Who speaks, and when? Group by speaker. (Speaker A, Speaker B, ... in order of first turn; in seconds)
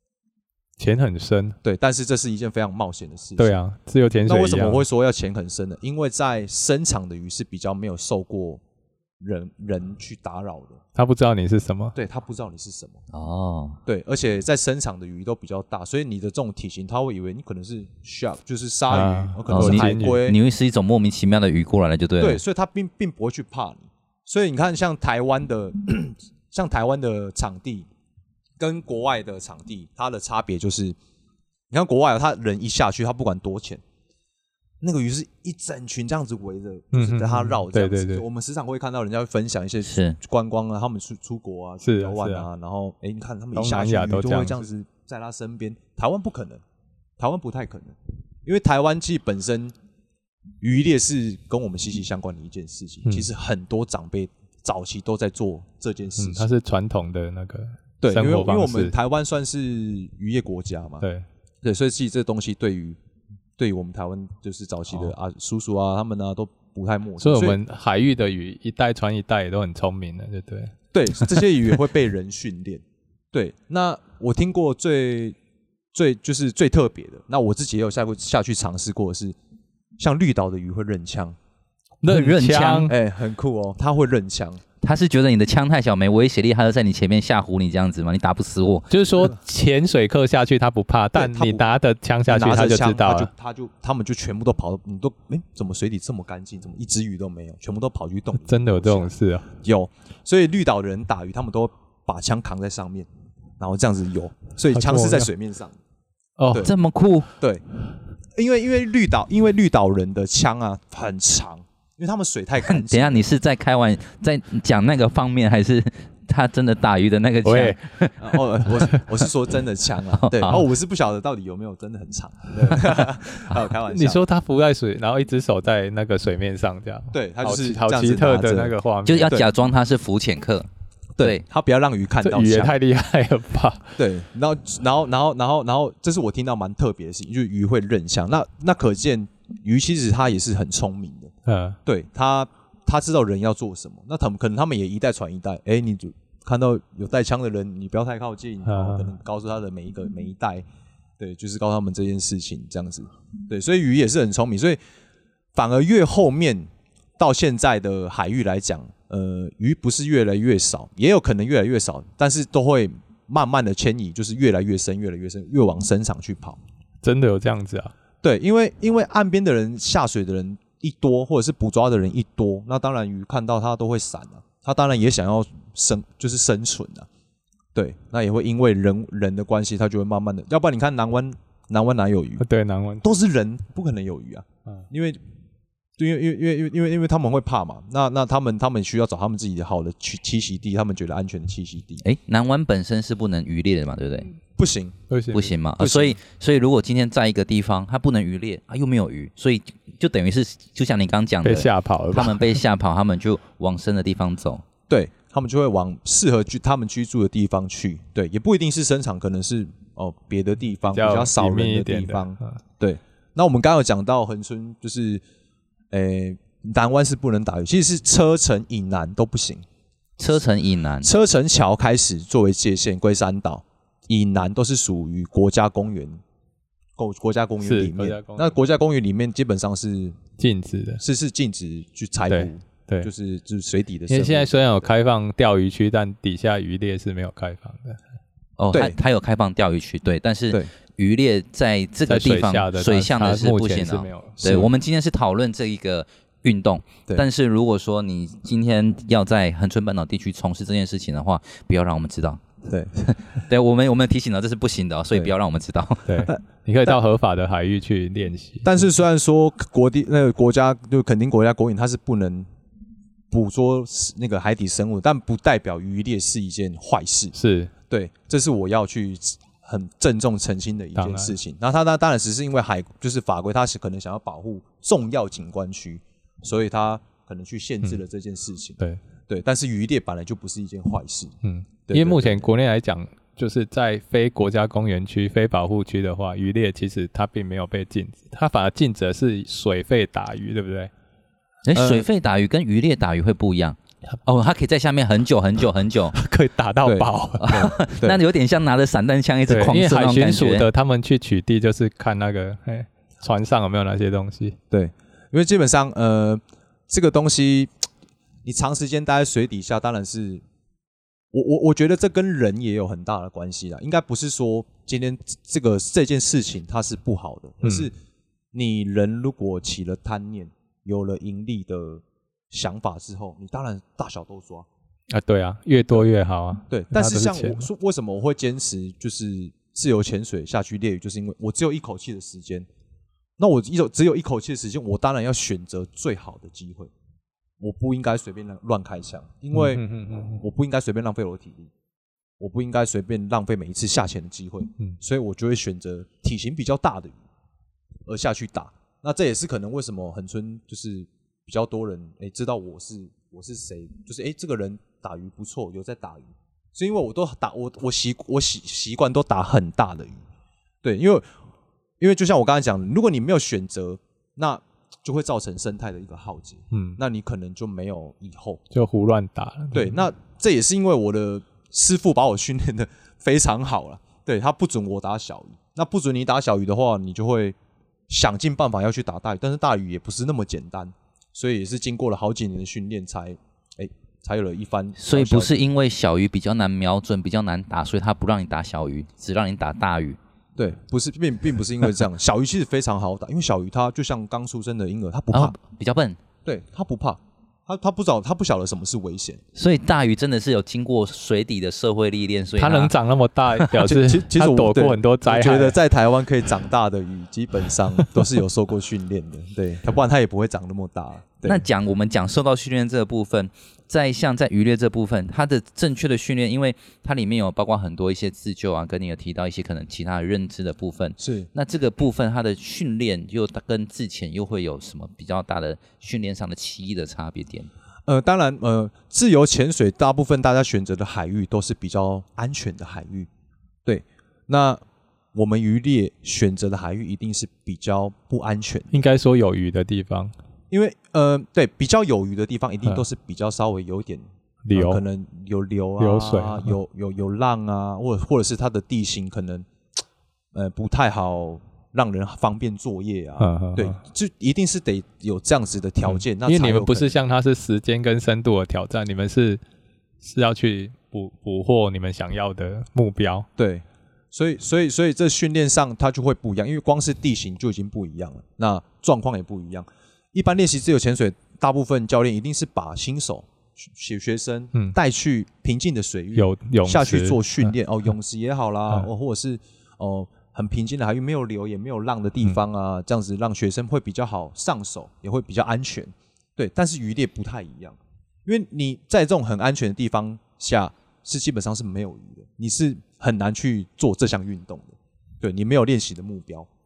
Speaker A: 0.8-1.6, 3.4-4.8, 10.9-11.9, 18.9-20.2, 36.9-38.2, 41.8-42.5, 43.5-44.6, 56.2-58.9, 67.2-71.4, 82.0-82.9, 88.9-93.3, 98.4-99.5, 104.7-105.3, 106.4-106.7, 117.4-117.8, 118.8-119.0, 123.9-129.4, 132.2-134.0, 141.4-141.8, 148.7-149.1, 167.0-167.9, 182.4-183.0, 195.1-195.5, 201.4-202.6, 210.9-212.6, 227.6-228.5, 230.4-231.0, 232.3-233.1, 234.1-238.0, 242.1-244.7, 256.1-258.7, 267.3-267.7, 271.0-271.4, 281.4-290.9, 296.1-297.7, 299.5-304.6, 317.6-317.9, 325.1-327.7, 339.5-340.4, 366.7-367.0, 368.7-370.0, 402.6-405.8, 408.0-408.2, 438.9-440.3, 444.6-445.0, 446.0-446.8, 453.4-454.0, 456.1-459.6, 460.2-463.5, 476.4-477.7
Speaker B: 1.6-3.5, 4.2-8.6, 9.2-10.8, 11.9-13.0, 13.8-20.4, 22.2-27.9, 28.6-30.9, 31.7-33.8, 34.8-46.6, 47.2-49.7, 50.6-56.5, 58.0-61.0, 61.6-63.0, 63.6-67.6, 70.9-75.4, 75.9-79.3, 80.0-81.4, 82.9-84.6, 91.1-91.7, 92.3-103.1, 103.6-105.8, 107.4-107.6, 108.3-113.2, 118.2-124.2, 127.1-128.7, 131.2-132.7, 134.0-141.3, 141.8-150.6, 151.2-154.8, 155.5-166.6, 168.2-177.1, 177.7-182.4, 183.0-185.2, 186.0-192.0, 194.6-195.0, 195.8-196.2, 204.9-215.2, 215.9-219.6, 221.0-226.2, 227.0-230.2, 231.0-234.9, 238.7-239.0, 244.4-244.7, 252.7-253.0, 256.2-257.0, 258.6-262.5, 263.3-267.3, 267.9-281.3, 281.9-282.5, 291.7-292.1, 296.8-298.2, 304.7-307.7, 308.4-310.4, 311.3-317.9, 318.5-324.7, 326.7-332.7, 333.4-336.9, 337.6-339.8, 340.4-341.7, 342.4-347.2, 348.1-360.2, 360.8-361.2, 362.0-368.6, 369.7-377.6, 378.1-385.6, 390.6-395.6, 396.4-399.4, 403.8-411.6, 421.2-421.5, 428.1-433.3, 433.9-434.8, 435.3-439.0, 440.7-449.7, 450.5-457.2, 463.6-496.7
Speaker C: 13.1-13.8, 19.5-22.4, 39.8-40.2, 82.0-82.9, 84.8-88.9, 106.6-107.3, 112.6-118.2, 120.1-120.6, 129.1-130.7, 192.0-194.3, 195.3-204.6, 220.2-221.1, 238.6-252.4, 253.1-256.2, 291.6-296.1, 297.4-300.7, 385.0-390.2, 395.3-396.2, 399.5-402.9, 411.4-427.7